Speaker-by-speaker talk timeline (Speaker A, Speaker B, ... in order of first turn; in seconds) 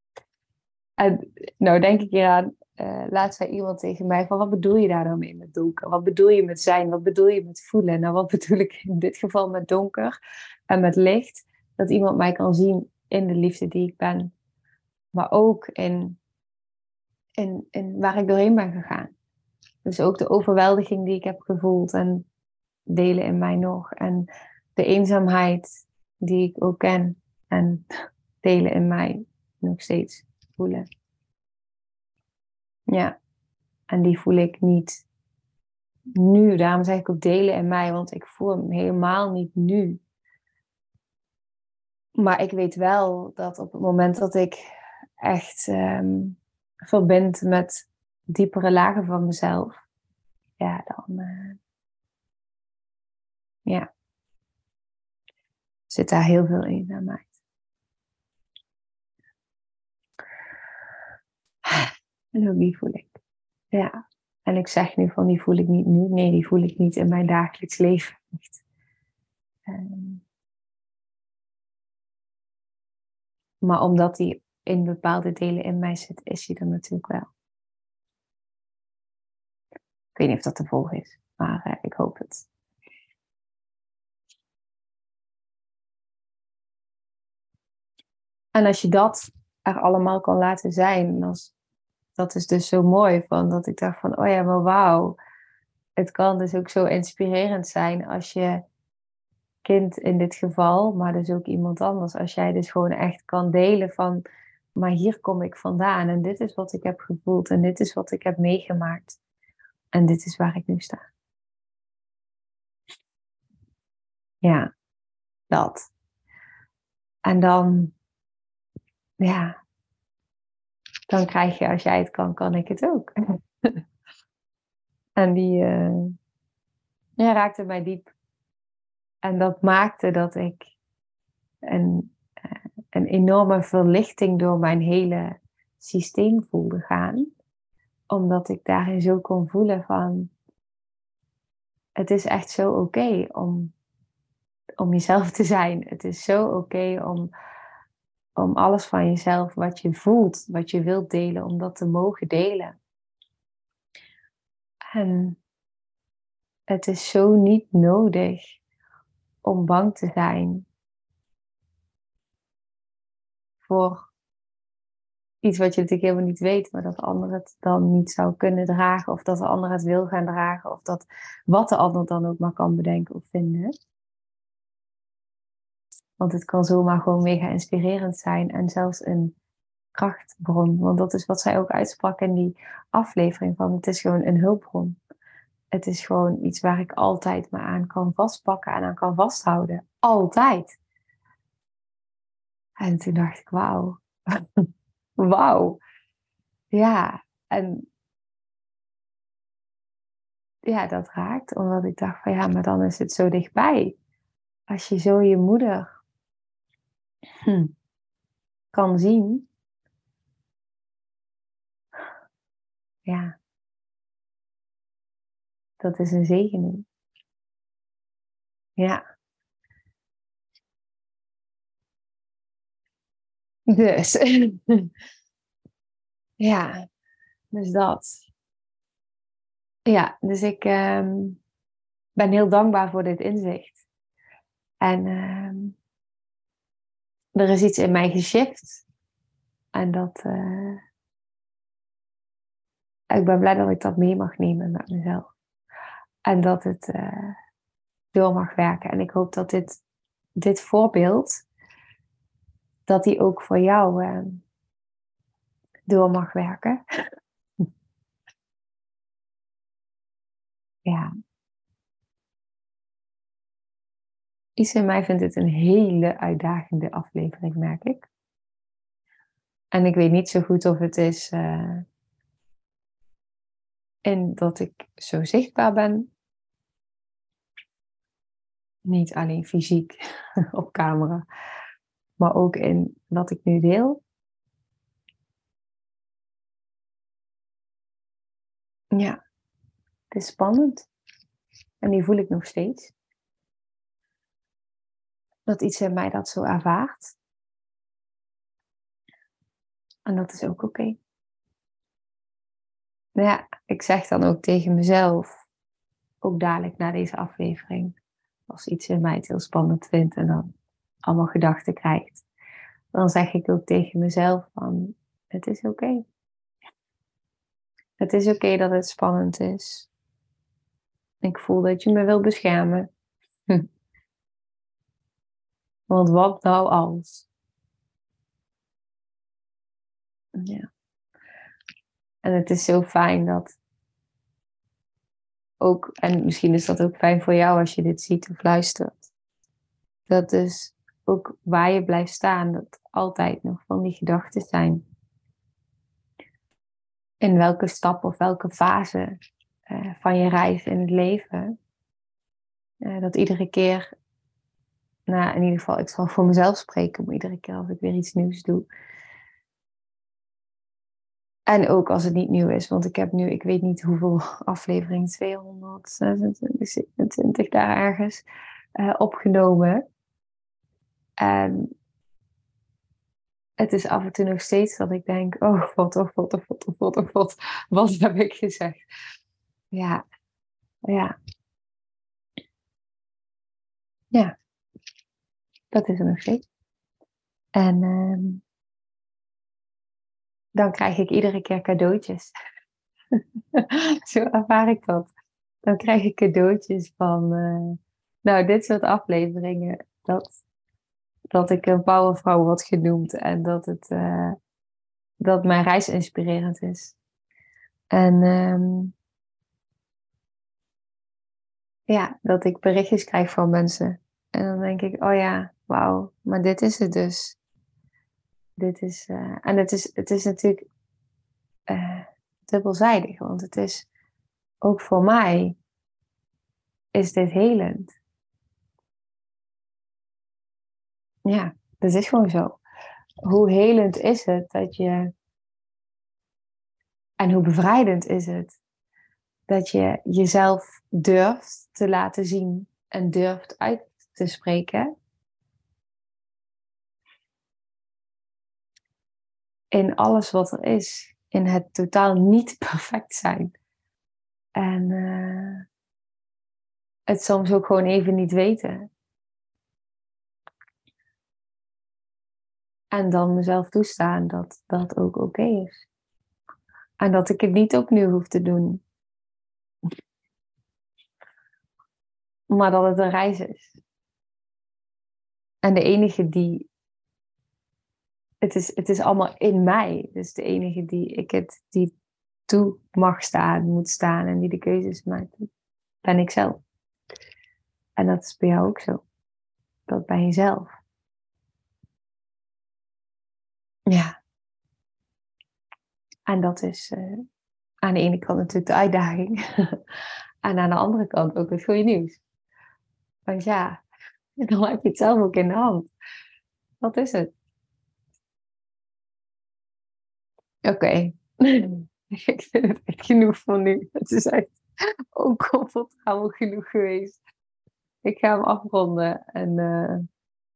Speaker A: 1.0-10.2, 10.7-14.3, 15.1-16.2, 17.4-19.1, 19.9-22.3, 22.9-25.7, 26.2-27.9, 28.4-30.9, 32.9-33.1, 33.9-35.0, 36.2-40.0, 42.2-44.6, 45.2-49.8, 50.6-51.6, 55.9-57.3, 61.7-63.1, 64.5-68.6, 69.7-70.2, 73.6-77.3, 80.2-82.5, 88.5-91.5, 92.2-95.2, 96.0-98.7, 99.7-104.2, 104.8-109.2, 109.9-111.0, 114.4-114.7, 115.5-115.9, 117.3-117.9, 119.2-119.6, 121.1-123.1, 125.2-126.1, 127.2-128.1, 129.2-130.7, 131.7-137.3, 138.1-140.3, 142.0-143.7, 144.8-147.3, 148.4-152.8, 154.9-155.4, 156.7-158.6, 159.4-160.7, 163.6-164.1, 165.4-173.7, 176.2-179.4, 179.9-185.0, 185.7-190.8, 192.8-194.0, 195.2-195.8, 196.7-197.9, 200.7-204.0, 204.7-205.9, 207.4-207.7, 208.7-209.5, 213.1-213.4, 215.8-216.8, 223.7-224.9, 226.4-226.9, 227.5-228.3, 229.9-231.4, 232.2-233.8, 234.8-235.8, 237.3-238.8, 239.7-240.8, 243.1-245.3, 246.3-247.4, 248.1-249.8, 250.4-251.4, 252.9-254.4, 255.9-256.8, 264.6-268.1, 269.7-271.9, 274.1-276.1, 278.9-280.0, 280.5-281.2, 282.2-284.0, 288.9-289.2, 290.1-290.9, 291.8-292.9, 295.5-297.1, 300.1-301.0, 303.2-305.3, 306.2-307.9, 308.5-310.5, 311.1-312.2, 312.9-316.0, 318.0-319.9, 321.2-322.9, 325.9-327.3, 330.4-330.7, 332.2-333.5, 335.6-339.1, 340.1-344.8, 347.2-349.2, 349.7-351.6, 352.8-353.9, 355.1-358.7, 361.5-368.2, 368.8-369.8, 371.2-371.7, 373.6-378.8, 379.7-380.0, 380.9-381.1, 385.7-386.4, 387.6-388.4, 390.6-392.3, 393.1-395.1, 395.7-400.4, 401.3-404.4, 405.2-407.0, 407.9-408.9, 411.9-417.4, 418.6-420.7, 421.7-423.9, 424.6-425.6, 426.9-428.0, 431.3-432.6, 433.2-435.1, 437.2-438.6, 439.5-444.9, 449.7-453.5, 454.6-455.6, 457.1-458.9, 462.9-465.9, 467.0-468.8, 472.5-473.7, 475.6-476.7, 478.4-481.9, 482.5-485.5, 486.0-486.6, 488.0-489.0, 489.9-490.7, 493.9-494.1, 496.3-497.2, 497.8-499.8, 500.4-502.2, 503.3-503.8, 504.4-505.9, 506.8-507.3, 510.6-514.5, 515.1-517.2, 518.0-520.1